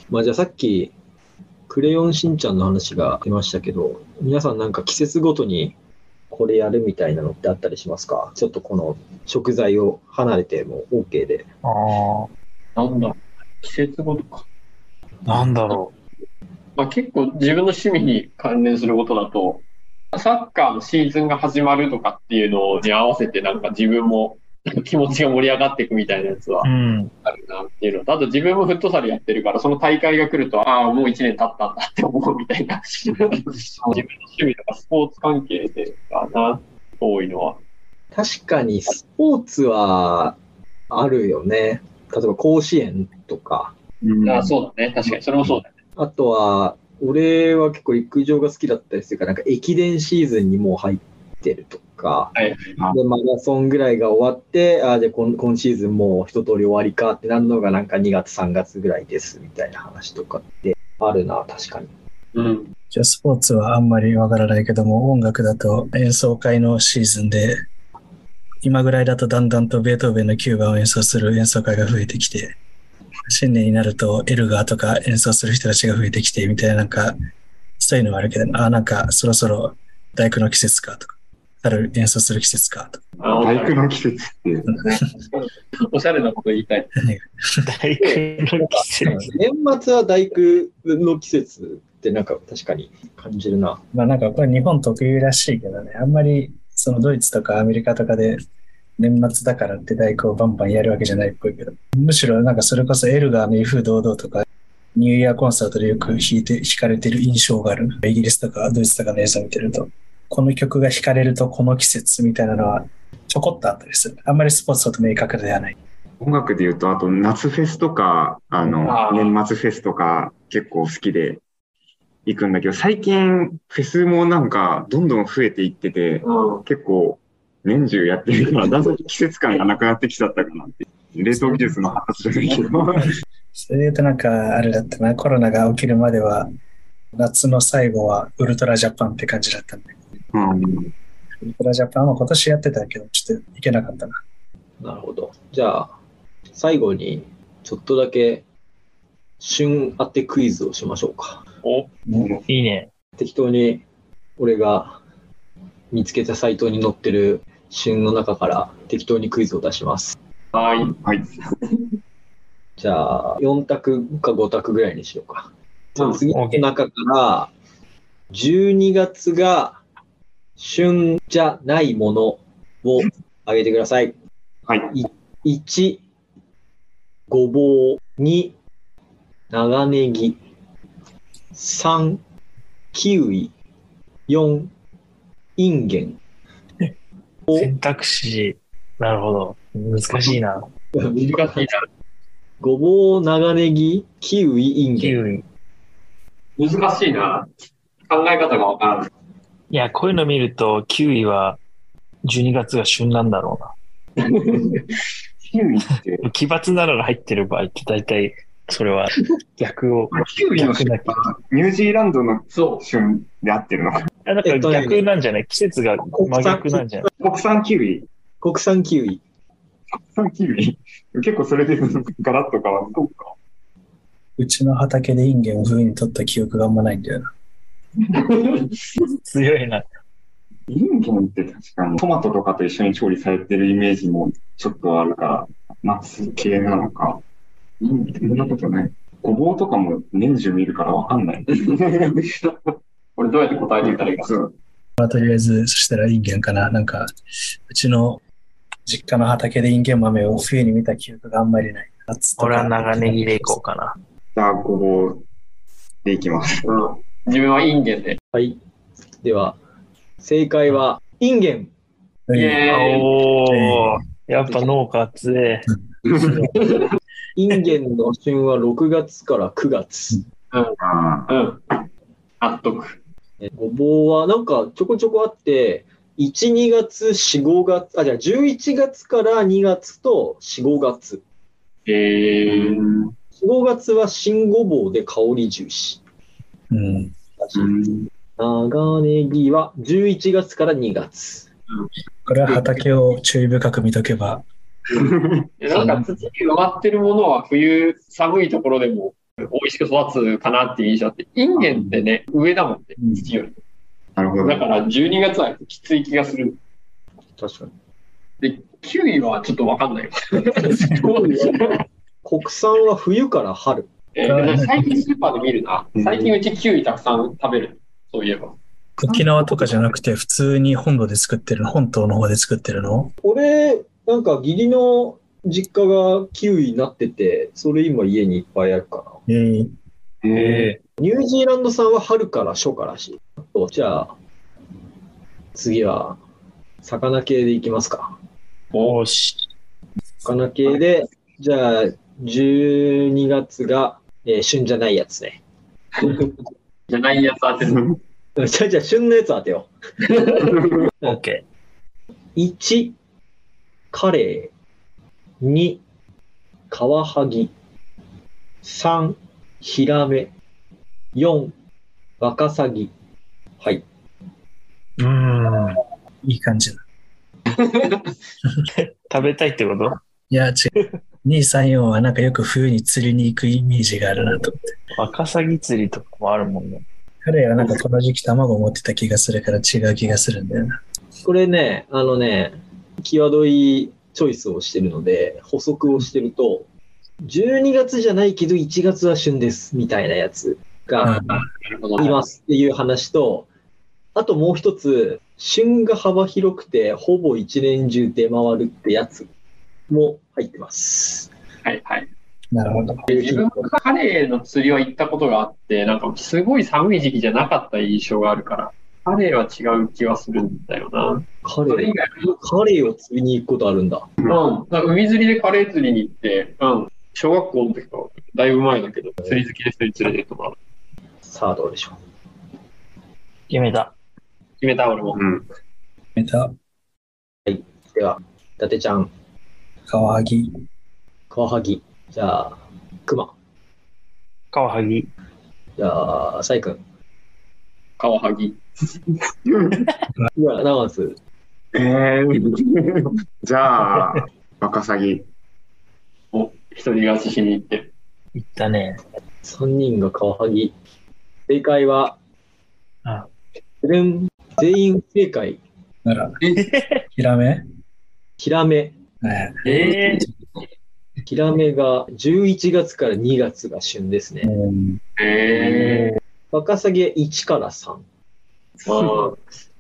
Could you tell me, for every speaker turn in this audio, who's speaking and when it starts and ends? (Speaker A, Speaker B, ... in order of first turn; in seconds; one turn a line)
Speaker A: 0.1-0.9
Speaker A: 1.7-5.7
Speaker A: 6.3-11.4
Speaker B: 11.6-12.3
Speaker C: 12.8-14.4
Speaker B: 15.3-15.9
Speaker C: 16.8-26.7
Speaker B: 26.6-27.1
Speaker C: 27.2-37.6
Speaker A: 38.1-40.4
Speaker A: 40.9-43.7
Speaker D: 44.0-44.5
Speaker C: 44.2-45.7
Speaker A: 46.0-52.3
Speaker C: 52.3-52.7
Speaker A: 52.9-61.9
Speaker C: 62.3-62.7
Speaker E: 62.9-67.5
Speaker E: 68.6-72.5
Speaker E: 73.2-77.1
Speaker E: 77.8-83.0
Speaker C: 83.2-83.9
Speaker D: 83.2-84.8
Speaker C: 84.8-86.9
Speaker B: 87.7-89.3
Speaker A: 88.0-93.8
Speaker E: 93.9-98.4
Speaker E: 99.0-104.4
Speaker E: 105.0-115.7
Speaker D: 116.2-121.4
Speaker C: 118.8-119.4
Speaker D: 122.2-133.1
Speaker C: 126.2-126.6
Speaker E: 133.7-136.5
Speaker E: 137.2-139.9
Speaker D: 140.3-140.9
Speaker E: 141.4-144.2
Speaker A: 144.8-145.9
Speaker A: 146.5-148.4
Speaker A: 149.4-151.4
Speaker C: 151.6-151.9
Speaker B: 152.5-152.9
Speaker A: 153.2-153.8
Speaker A: 154.4-155.0
Speaker A: 155.9-160.2
Speaker C: 160.5-160.9
Speaker D: 161.0-161.3
Speaker A: 162.8-167.5
Speaker B: 166.3-166.6
Speaker A: 168.3-169.8
Speaker A: 170.6-174.1
Speaker D: 174.7-174.9
Speaker A: 174.9-176.0
Speaker A: 177.3-178.5
Speaker A: 179.5-180.4
Speaker A: 181.5-182.2
Speaker A: 182.9-183.5
Speaker A: 184.3-184.7
Speaker A: 185.6-186.2
Speaker A: 187.5-187.7
Speaker B: 187.5-190.7
Speaker A: 191.0-191.7
Speaker C: 191.2-191.8
Speaker A: 192.6-195.2
Speaker B: 195.0-195.4
Speaker C: 196.6-197.5
Speaker C: 198.1-199.1
Speaker B: 199.7-201.6
Speaker B: 202.2-203.7
Speaker C: 204.3-204.8
Speaker D: 205.4-206.2
Speaker B: 206.2-211.2
Speaker D: 210.1-213.9
Speaker C: 212.5-212.8
Speaker B: 214.2-217.1
Speaker A: 214.4-215.0
Speaker A: 216.1-216.8
Speaker D: 217.2-218.1
Speaker A: 218.4-219.2
Speaker D: 220.0-223.3
Speaker E: 224.4-227.2
Speaker C: 228.3-228.6
Speaker B: 229.3-229.8
Speaker D: 230.7-237.2
Speaker C: 237.8-238.5
Speaker D: 238.0-242.0
Speaker C: 240.9-241.2
Speaker C: 243.2-244.3
Speaker D: 243.8-244.5
Speaker E: 245.0-247.1
Speaker E: 247.7-248.2
Speaker E: 248.9-253.6
Speaker B: 252.4-253.9
Speaker D: 254.3-255.2
Speaker D: 256.0-256.6
Speaker C: 256.6-258.2
Speaker A: 258.3-258.6
Speaker A: 259.2-259.6
Speaker A: 260.2-261.7
Speaker E: 262.3-262.6
Speaker C: 262.3-263.1
Speaker B: 262.7-265.7
Speaker E: 263.5-264.0
Speaker A: 264.4-264.8
Speaker A: 267.4-270.2
Speaker C: 270.5-271.8
Speaker D: 270.8-271.3
Speaker C: 272.4-273.0
Speaker A: 273.4-281.2
Speaker C: 281.9-282.8
Speaker D: 282.5-283.0
Speaker A: 283.4-286.0
Speaker E: 286.7-287.1
Speaker A: 287.4-287.7
Speaker D: 287.6-288.1
Speaker A: 288.4-291.5
Speaker E: 292.2-294.4
Speaker D: 295.0-295.4
Speaker C: 295.6-303.6
Speaker E: 295.7-296.1
Speaker D: 304.1-304.6
Speaker C: 304.4-306.6
Speaker A: 307.4-307.7
Speaker C: 308.4-311.8
Speaker A: 312.2-313.9
Speaker C: 314.1-318.6
Speaker E: 314.2-315.0
Speaker E: 319.0-323.1
Speaker A: 323.2-329.2
Speaker E: 329.3-329.7
Speaker B: 330.4-330.8
Speaker A: 331.0-334.1
Speaker A: 335.5-336.2
Speaker A: 336.8-338.1
Speaker B: 338.8-339.4
Speaker A: 340.2-345.4
Speaker C: 346.0-346.3
Speaker C: 346.9-347.8
Speaker D: 347.6-347.9
Speaker A: 348.4-349.7
Speaker C: 350.4-350.8
Speaker B: 351.0-351.4
Speaker A: 352.4-352.9
Speaker A: 353.9-354.5
Speaker A: 355.4-355.8
Speaker A: 356.7-357.5
Speaker A: 358.6-360.3
Speaker A: 361.1-361.5
Speaker A: 362.2-362.9
Speaker A: 363.6-363.8
Speaker B: 365.0-365.8
Speaker E: 366.2-366.8
Speaker C: 367.5-368.1
Speaker B: 368.8-370.0
Speaker E: 370.3-370.7
Speaker E: 371.2-374.6
Speaker B: 374.9-376.8
Speaker E: 377.2-380.8
Speaker A: 381.2-386.7
Speaker A: 387.2-391.2
Speaker C: 391.0-392.2
Speaker E: 391.0-391.4
Speaker A: 392.0-393.5
Speaker A: 394.1-399.3
Speaker A: 399.9-401.3
Speaker C: 401.6-402.1
Speaker E: 402.5-403.1
Speaker C: 403.1-412.3
Speaker A: 403.1-403.7
Speaker A: 411.4-414.1
Speaker C: 414.3-420.6
Speaker A: 421.2-422.0
Speaker B: 423.5-423.9
Speaker C: 424.6-425.2
Speaker D: 425.1-425.4
Speaker E: 426.1-426.5
Speaker A: 427.4-429.1
Speaker E: 429.9-430.5
Speaker A: 431.3-433.3
Speaker B: 434.5-435.1
Speaker A: 435.8-436.8
Speaker C: 438.0-438.6
Speaker D: 439.4-439.8
Speaker A: 440.3-441.2
Speaker D: 441.7-445.2
Speaker C: 446.3-447.9
Speaker B: 448.3-449.0
Speaker A: 449.4-450.7
Speaker A: 451.5-452.1
Speaker B: 453.0-453.3
Speaker A: 453.8-455.6
Speaker E: 456.0-456.4
Speaker B: 456.6-457.0
Speaker E: 457.1-457.6
Speaker A: 458.4-458.9
Speaker E: 459.2-460.3
Speaker B: 459.6-460.2
Speaker A: 461.2-464.5
Speaker E: 464.4-465.0
Speaker C: 465.2-466.2
Speaker A: 466.5-468.0
Speaker C: 468.8-469.4